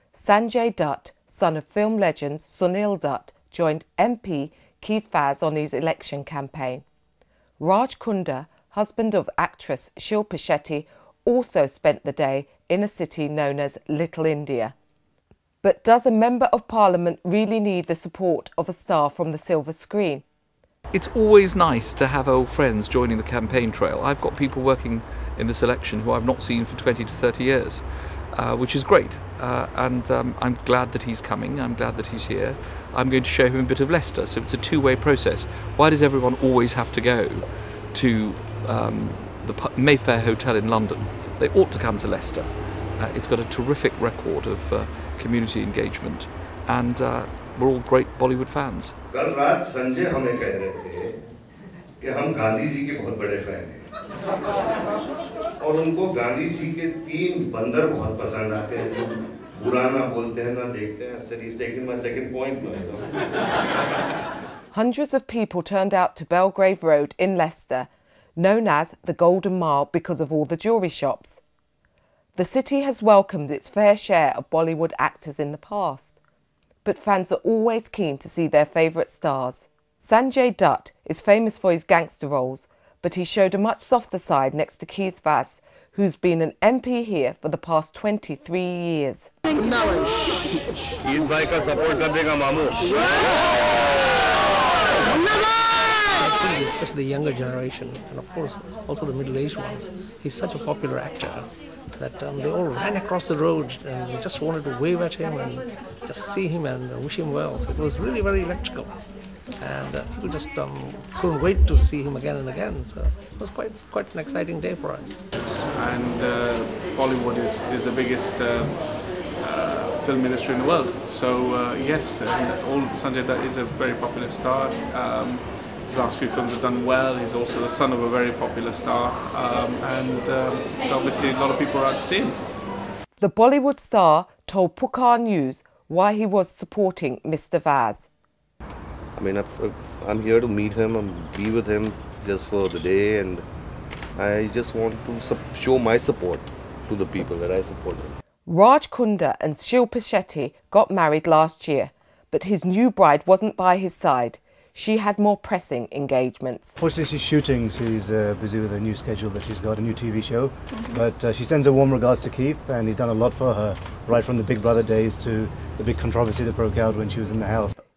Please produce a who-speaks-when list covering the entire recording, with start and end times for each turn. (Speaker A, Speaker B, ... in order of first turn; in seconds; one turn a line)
Speaker A: 0.1-6.8
Speaker A: 7.6-14.7
Speaker A: 15.6-20.2
Speaker B: 20.9-48.9
Speaker C: 49.1-51.1
Speaker C: 52.0-53.8
Speaker C: 55.6-63.0
Speaker A: 64.7-71.4
Speaker A: 72.3-76.2
Speaker A: 76.8-89.3
Speaker C: 91.0-92.9
Speaker D: 96.1-115.2
Speaker E: 115.6-132.5
Speaker A: 133.2-138.1
Speaker C: 139.2-143.4
Speaker C: 144.2-148.1
Speaker A: 148.4-156.8
Speaker F: 156.8-167.7